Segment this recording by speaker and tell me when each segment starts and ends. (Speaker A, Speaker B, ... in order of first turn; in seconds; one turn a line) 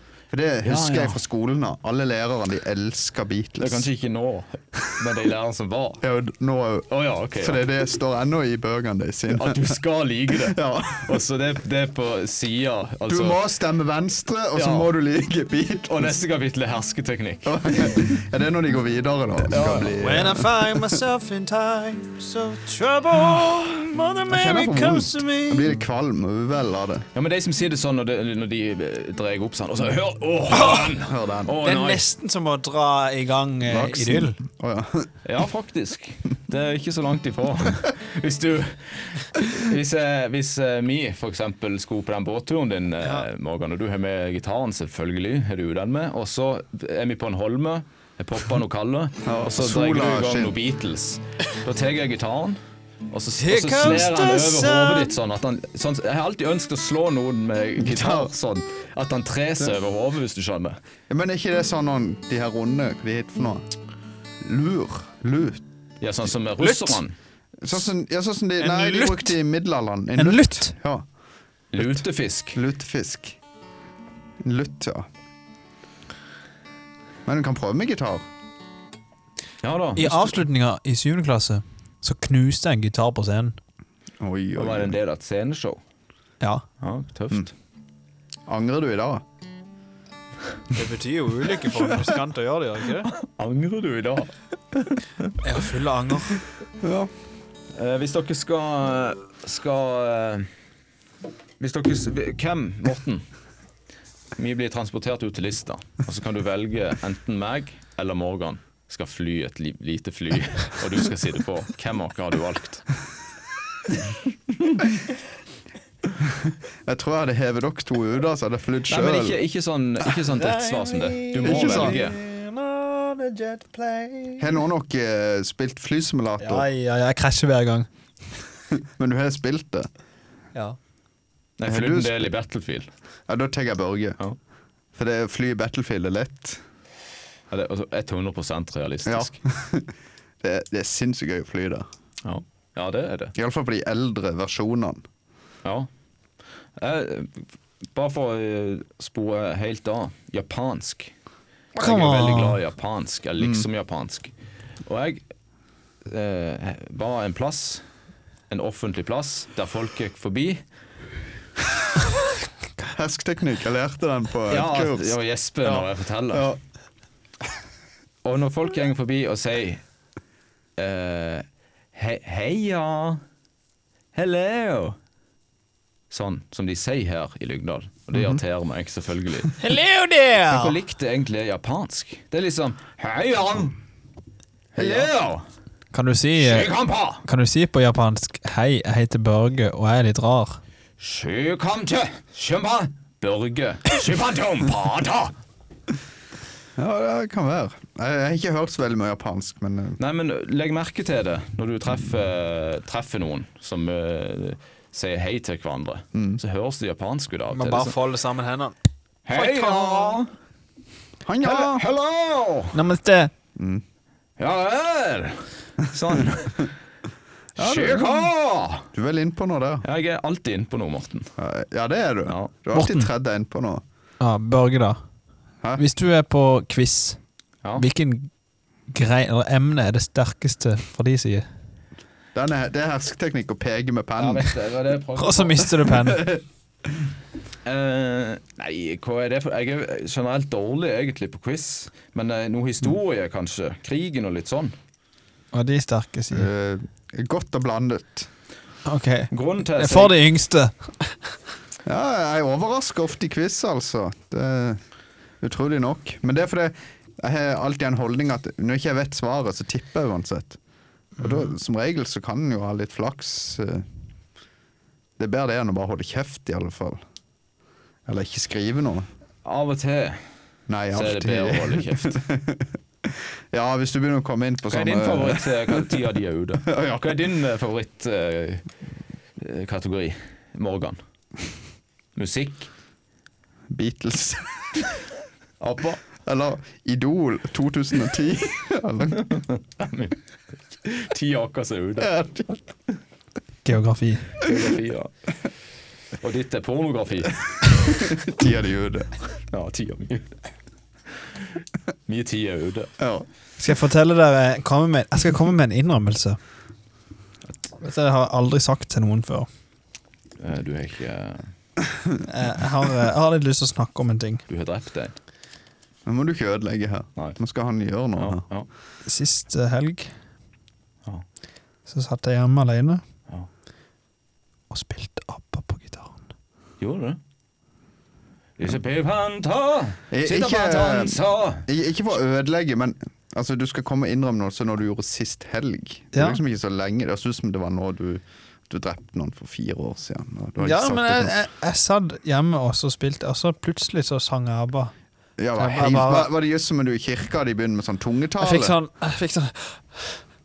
Speaker A: 0.3-3.9
Speaker B: 0.6-1.2
Speaker B: 3.6-6.0
Speaker A: 6.0-9.8
Speaker B: 6.9-7.6
Speaker B: 9.3-13.4
Speaker A: 10.3-11.2
Speaker A: 13.1-16.1
Speaker B: 14.5-14.9
Speaker B: 15.9-18.0
Speaker A: 17.4-21.0
Speaker B: 19.5-20.0
Speaker C: 19.9-25.7
Speaker A: 24.3-27.1
Speaker B: 27.1-32.0
Speaker A: 30.5-31.5
Speaker C: 31.6-34.4
Speaker A: 33.6-35.1
Speaker B: 35.2-52.6
Speaker A: 49.2-50.5
Speaker B: 53.1-60.8
Speaker C: 53.4-55.1
Speaker A: 57.8-58.3
Speaker A: 61.1-63.6
Speaker A: 64.4-65.6
Speaker B: 66.0-67.1
Speaker C: 66.6-67.0
Speaker A: 67.6-71.0
Speaker C: 68.6-69.3
Speaker C: 70.2-70.7
Speaker B: 71.7-72.6
Speaker A: 72.5-73.4
Speaker A: 74.4-75.1
Speaker A: 77.2-78.2
Speaker B: 79.6-80.3
Speaker C: 80.0-83.6
Speaker A: 84.2-85.0
Speaker B: 84.5-85.8
Speaker B: 86.8-87.5
Speaker A: 88.5-89.2
Speaker C: 90.7-93.1
Speaker B: 93.1-94.3
Speaker B: 94.8-95.3
Speaker C: 95.4-96.4
Speaker A: 96.8-97.1
Speaker B: 97.8-100.5
Speaker B: 101.6-103.2
Speaker B: 104.4-112.9
Speaker B: 114.5-114.8
Speaker A: 116.8-119.4
Speaker B: 118.9-122.2
Speaker C: 120.4-124.6
Speaker A: 121.4-122.0
Speaker A: 124.4-126.7
Speaker C: 126.4-127.9
Speaker A: 128.8-129.9
Speaker B: 131.6-132.9
Speaker A: 131.7-132.3
Speaker A: 133.3-134.2
Speaker A: 134.9-136.6
Speaker B: 137.5-139.3
Speaker A: 139.0-141.9
Speaker B: 142.2-143.3
Speaker A: 143.3-145.0
Speaker B: 146.8-151.1
Speaker C: 151.8-152.6
Speaker B: 151.8-154.3
Speaker A: 153.4-153.7
Speaker B: 154.8-155.2
Speaker B: 156.1-157.8
Speaker B: 158.5-160.6
Speaker A: 162.9-165.1
Speaker B: 164.5-166.5
Speaker A: 165.6-166.6
Speaker B: 168.2-169.8
Speaker B: 170.8-173.2
Speaker B: 174.1-175.0
Speaker B: 176.1-179.6
Speaker A: 178.1-178.4
Speaker C: 179.6-180.7
Speaker B: 180.5-183.8
Speaker B: 184.7-185.4
Speaker A: 184.8-185.1
Speaker C: 185.9-190.6
Speaker B: 186.4-187.2
Speaker B: 191.0-195.3
Speaker A: 196.8-200.0
Speaker B: 200.0-207.9
Speaker A: 206.1-206.4
Speaker C: 207.5-208.7
Speaker B: 209.2-210.3
Speaker C: 209.3-210.2
Speaker A: 211.2-211.8
Speaker B: 211.4-212.8
Speaker C: 212.7-213.3
Speaker A: 213.6-213.8
Speaker B: 214.4-216.7
Speaker A: 217.6-218.3
Speaker B: 217.6-218.9
Speaker A: 218.9-219.8
Speaker B: 219.8-221.3
Speaker A: 221.4-223.8
Speaker B: 222.2-222.5
Speaker C: 222.7-223.1
Speaker C: 224.2-225.0
Speaker C: 225.8-227.2
Speaker C: 227.8-228.3
Speaker C: 228.9-231.5
Speaker A: 232.3-234.5
Speaker B: 234.2-235.7
Speaker C: 235.2-236.3
Speaker A: 236.1-236.4
Speaker B: 237.6-244.7
Speaker C: 245.5-246.5
Speaker A: 246.3-248.3
Speaker C: 248.8-251.2
Speaker B: 249.3-250.1
Speaker A: 251.8-254.8
Speaker A: 255.4-260.6
Speaker A: 261.2-263.8
Speaker A: 265.2-267.0
Speaker A: 268.1-269.1
Speaker B: 269.4-270.2
Speaker A: 270.7-275.9
Speaker B: 270.9-272.2
Speaker B: 274.7-278.6
Speaker A: 276.7-277.2
Speaker B: 279.4-281.0
Speaker B: 282.1-282.7
Speaker A: 283.7-284.8
Speaker B: 285.6-286.0
Speaker A: 286.2-289.4
Speaker B: 289.1-290.2
Speaker B: 290.8-292.1
Speaker A: 292.0-292.6
Speaker C: 293.6-294.3
Speaker B: 294.4-295.1
Speaker B: 296.2-297.4
Speaker A: 297.9-299.1
Speaker B: 299.5-300.3
Speaker B: 302.1-302.9
Speaker A: 303.0-303.3
Speaker C: 303.6-306.4
Speaker C: 307.8-309.5
Speaker B: 310.4-311.4
Speaker C: 312.2-314.4
Speaker B: 314.5-315.1
Speaker A: 316.1-318.4
Speaker B: 318.2-318.7
Speaker C: 319.1-320.1
Speaker C: 321.9-323.0
Speaker C: 324.7-326.2
Speaker B: 326.8-327.2
Speaker B: 328.6-331.6
Speaker A: 330.1-341.4
Speaker C: 336.1-336.4
Speaker C: 340.6-344.9
Speaker A: 345.4-348.7
Speaker C: 345.6-346.3
Speaker C: 348.4-350.2